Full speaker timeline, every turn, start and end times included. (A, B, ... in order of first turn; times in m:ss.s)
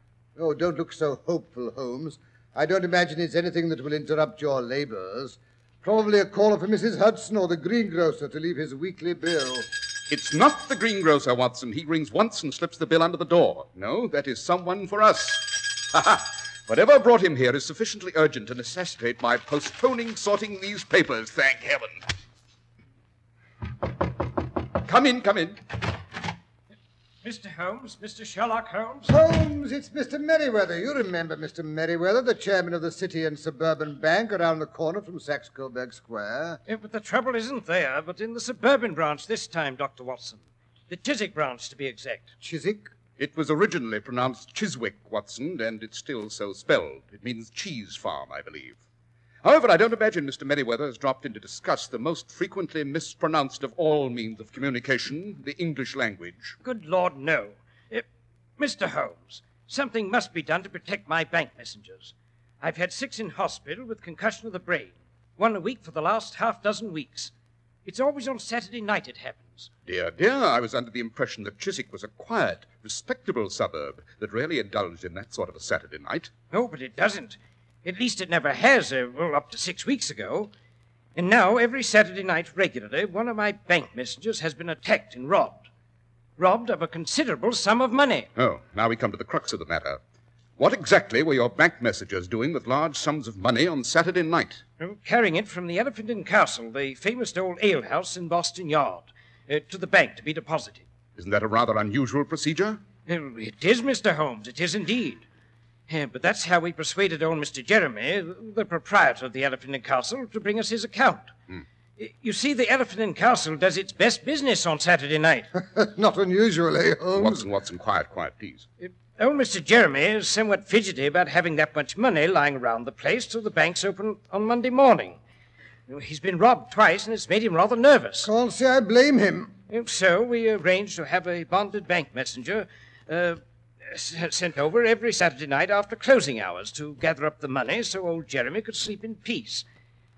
0:00.4-0:09.7 A
0:10.1-0:22.0 B
0:24.8-0:25.6 B
0:27.2-0:29.1 C
0:29.1-0:36.6 A
0:36.7-0:42.3 C
0:42.4-0:42.9 A
0:43.2-0:48.8 B
0:49.4-0:56.6 B
0:56.6-0:58.0 C
0:58.6-1:07.3 C
1:07.8-1:09.7 C
1:09.8-1:16.3 B
1:16.5-1:20.5 C
1:21.1-1:25.6 C
1:26.4-1:28.3 C
1:28.4-1:30.0 B
1:30.6-1:34.6 B
1:34.8-1:40.8 C
1:41.2-1:42.8 B
1:43.1-1:45.2 C
1:45.9-1:51.3 C
1:52.0-1:55.5 C
1:55.5-1:57.4 A
1:57.1-1:58.6 B
1:58.8-2:05.2 C
2:05.9-2:08.3 C
2:08.2-2:09.5 A
2:09.7-2:19.6 C